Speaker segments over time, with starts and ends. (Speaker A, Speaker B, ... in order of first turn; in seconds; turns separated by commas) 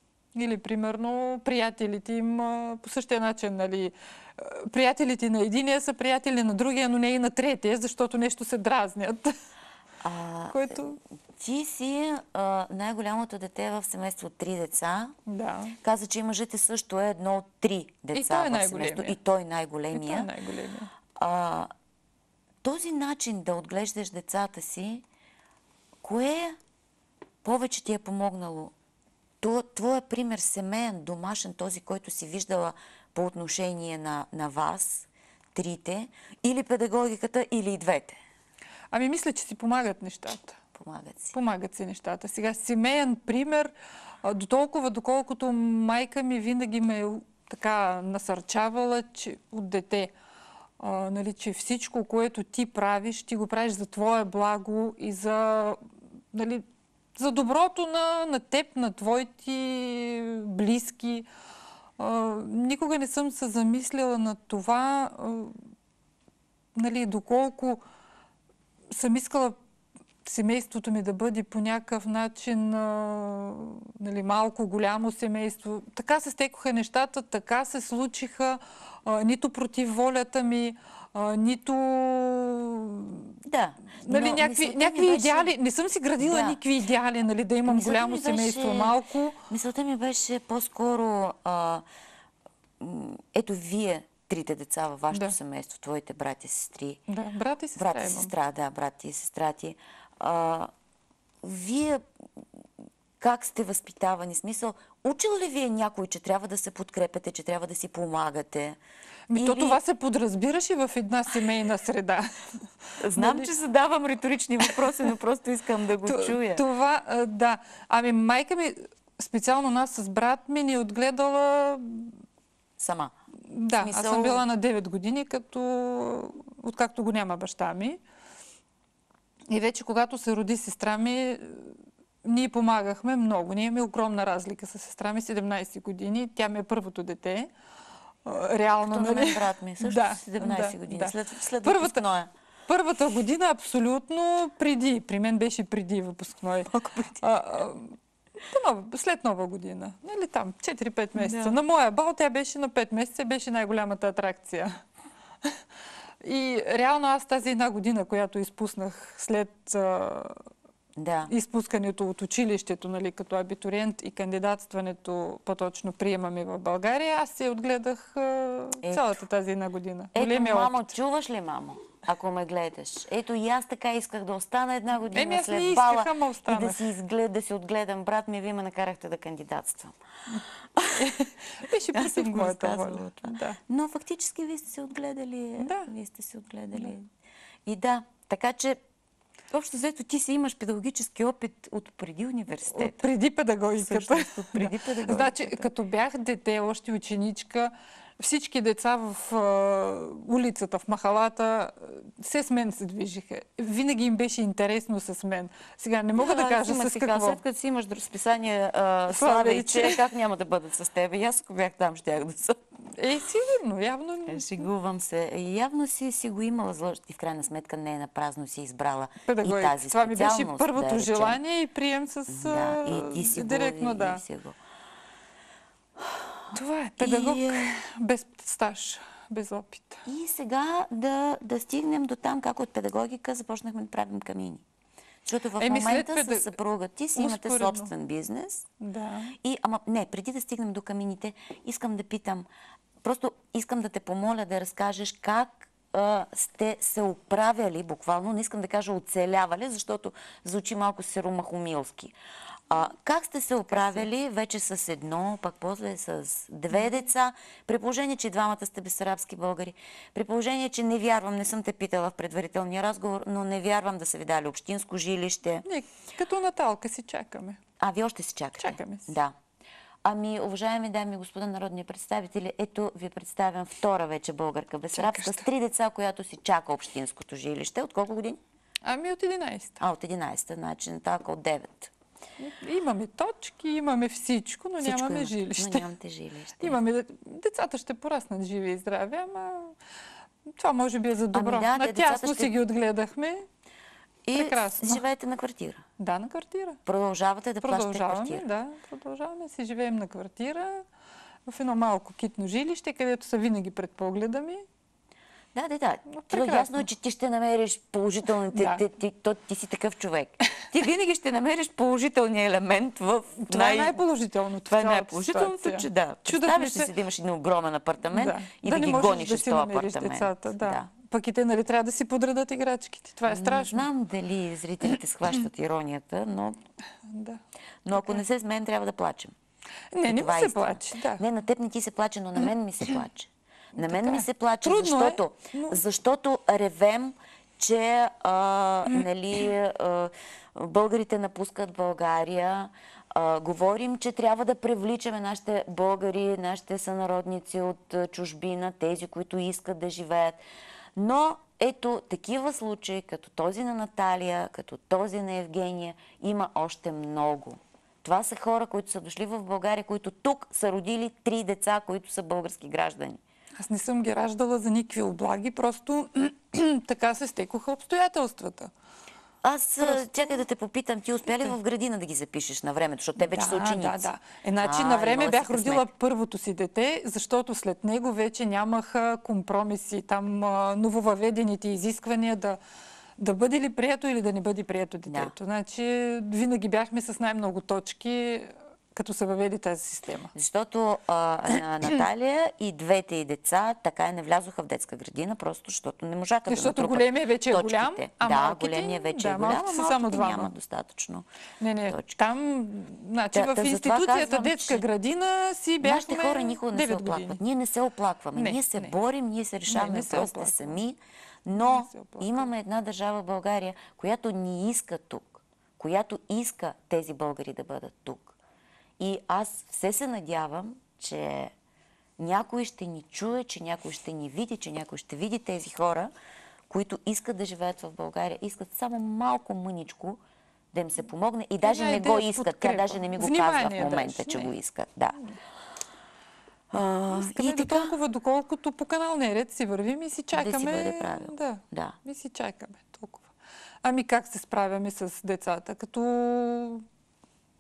Speaker A: 0.3-9.3, Speaker B: 10.0-10.8, Speaker A: 10.5-11.0, Speaker B: 11.4-15.2, Speaker A: 15.3-15.8, Speaker B: 15.8-20.3, Speaker A: 18.1-19.2, Speaker A: 19.9-20.9, Speaker B: 21.2-21.7, Speaker B: 22.6-25.0, Speaker B: 26.0-26.6, Speaker B: 27.4-28.7, Speaker B: 29.4-38.2, Speaker A: 38.9-40.6, Speaker B: 40.8-41.4, Speaker A: 41.3-43.7, Speaker A: 44.2-50.1, Speaker A: 50.8-55.8, Speaker A: 56.3-56.6, Speaker A: 57.2-61.3, Speaker A: 62.0-65.6, Speaker A: 66.8-67.8, Speaker A: 68.9-69.6, Speaker A: 70.2-83.3, Speaker B: 83.4-85.5, Speaker A: 84.0-89.4, Speaker B: 86.2-86.6, Speaker B: 87.7-89.0, Speaker B: 89.5-91.8, Speaker B: 92.8-97.0, Speaker A: 97.1-98.3, Speaker B: 97.8-100.7, Speaker B: 101.4-102.0, Speaker B: 103.2-108.8, Speaker A: 109.3-112.3, Speaker B: 109.3-109.8, Speaker A: 112.9-113.5, Speaker B: 113.0-116.6, Speaker A: 116.1-122.1, Speaker B: 122.8-123.1, Speaker A: 123.5-128.0, Speaker B: 123.8-124.4, Speaker A: 129.5-137.5, Speaker A: 138.2-142.0, Speaker B: 138.9-142.3, Speaker A: 142.7-148.0, Speaker B: 146.7-147.2, Speaker A: 148.5-154.7, Speaker B: 151.2-151.6, Speaker A: 156.2-160.4, Speaker B: 161.0-161.3, Speaker A: 161.3-170.9, Speaker B: 168.8-169.2, Speaker B: 170.1-180.0, Speaker A: 175.1-176.8, Speaker B: 180.7-181.1, Speaker A: 181.0-183.6, Speaker B: 181.9-187.1, Speaker A: 185.6-185.9, Speaker B: 187.7-188.8, Speaker B: 189.5-193.1, Speaker A: 192.7-207.4, Speaker B: 193.8-195.7, Speaker B: 206.2-212.6, Speaker A: 209.1-210.1, Speaker A: 212.9-214.7, Speaker B: 214.3-221.4, Speaker A: 219.3-224.2, Speaker B: 222.3-224.6, Speaker B: 226.0-227.7, Speaker A: 226.5-230.0, Speaker B: 230.1-234.6, Speaker B: 235.3-238.7, Speaker A: 235.6-236.5, Speaker A: 237.2-237.9, Speaker A: 238.8-239.3, Speaker B: 239.4-242.5, Speaker B: 243.0-252.1, Speaker B: 252.7-265.6, Speaker A: 253.7-254.1, Speaker A: 265.7-267.6, Speaker B: 267.8-269.4, Speaker A: 268.6-269.1, Speaker B: 270.0-278.4, Speaker A: 274.9-275.5, Speaker A: 278.8-279.8, Speaker B: 279.8-281.9, Speaker A: 282.4-285.9, Speaker B: 284.8-286.8, Speaker A: 286.6-289.8, Speaker A: 290.6-293.4, Speaker B: 291.3-292.5, Speaker B: 294.3-295.8, Speaker A: 294.4-295.0, Speaker A: 296.0-296.8, Speaker B: 296.9-298.4, Speaker A: 297.6-300.9, Speaker A: 301.5-304.6, Speaker B: 305.5-314.0, Speaker A: 306.1-306.9, Speaker A: 308.5-308.8, Speaker A: 313.4-316.9, Speaker B: 314.7-320.9, Speaker A: 318.1-323.9, Speaker B: 323.3-326.6, Speaker A: 327.1-327.4, Speaker B: 327.9-329.3, Speaker A: 327.9-328.2, Speaker A: 329.9-331.2, Speaker B: 330.1-350.4, Speaker A: 333.8-335.8, Speaker B: 351.0-363.2, Speaker A: 363.6-368.7, Speaker B: 369.4-374.1, Speaker A: 369.8-370.4, Speaker A: 371.3-371.6, Speaker A: 373.2-382.6, Speaker B: 374.6-375.9, Speaker A: 383.2-390.3, Speaker B: 385.1-385.3, Speaker B: 390.3-401.3, Speaker A: 396.5-400.5, Speaker A: 401.6-407.4, Speaker B: 401.9-402.2, Speaker B: 403.3-404.8, Speaker B: 405.8-418.4, Speaker A: 408.4-408.9, Speaker A: 409.7-410.8, Speaker A: 411.5-412.5, Speaker B: 419.0-421.5, Speaker B: 422.2-426.1, Speaker B: 426.7-430.2, Speaker B: 430.7-435.2, Speaker A: 431.6-434.5, Speaker B: 436.7-438.0, Speaker A: 437.1-443.3, Speaker B: 440.3-442.0, Speaker A: 443.8-446.9